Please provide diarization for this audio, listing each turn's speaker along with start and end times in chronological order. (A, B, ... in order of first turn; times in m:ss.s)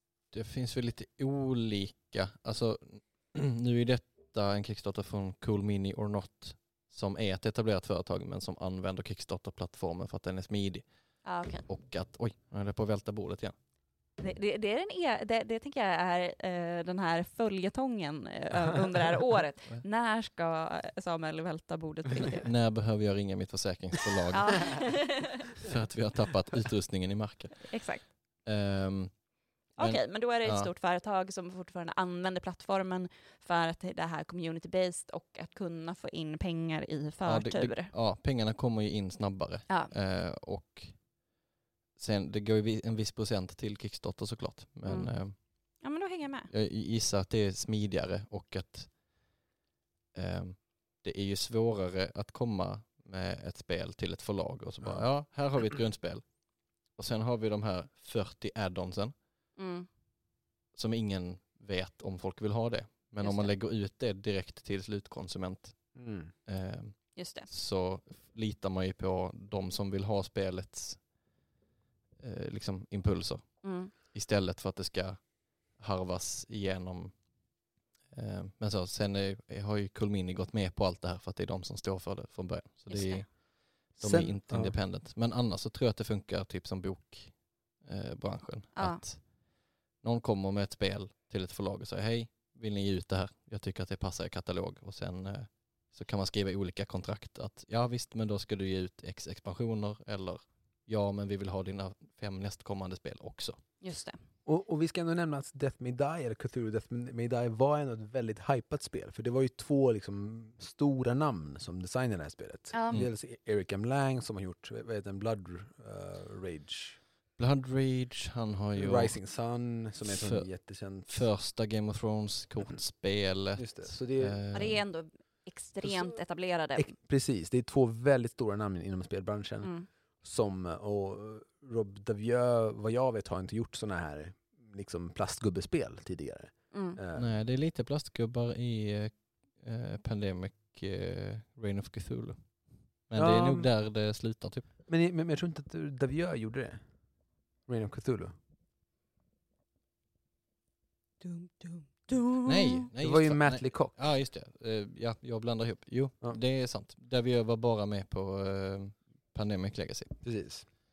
0:00.3-0:10.8 A
0:11.2-0:11.6 B
0:11.6-0:13.5 A
0:14.2-0:22.5 B
0:22.4-0:30.7 A
0:24.3-0:25.2 B
0:27.7-0:28.0 B
0:29.8-0:37.9 B
0:37.2-0:41.0 A
0:42.0-0:45.4 A
0:44.8-0:46.5 B
0:46.5-0:49.0 A
0:50.1-0:56.3 A
0:56.9-0:59.1 A
0:59.6-0:59.9 B
1:00.7-1:11.1 A
1:03.2-1:03.5 B
1:05.9-1:06.3 C
1:07.2-1:07.5 B
1:12.2-1:17.3 A
1:13.6-1:13.9 B
1:18.1-1:29.5 A
1:22.9-1:23.3 B
1:24.0-1:24.8 C
1:28.8-1:29.0 B
1:30.0-1:43.6 A
1:43.8-1:44.2 B
1:44.4-1:57.0 C
1:52.7-1:53.0 B
1:57.4-1:59.2 A
1:58.8-2:01.1 C
2:00.0-2:00.5 A
2:01.0-2:04.8 A
2:03.6-2:04.4 C
2:04.5-2:06.9 B
2:05.8-2:06.1 C
2:06.8-2:09.7 C
2:10.2-2:17.3 C
2:16.7-2:17.0 B
2:17.1-2:24.7 A
2:23.1-2:23.7 C
2:24.9-2:26.8 C
2:27.7-2:28.3 C
2:31.2-2:32.9 B
2:32.4-2:40.1 A
2:33.0-2:33.9 C
2:40.2-2:40.7 C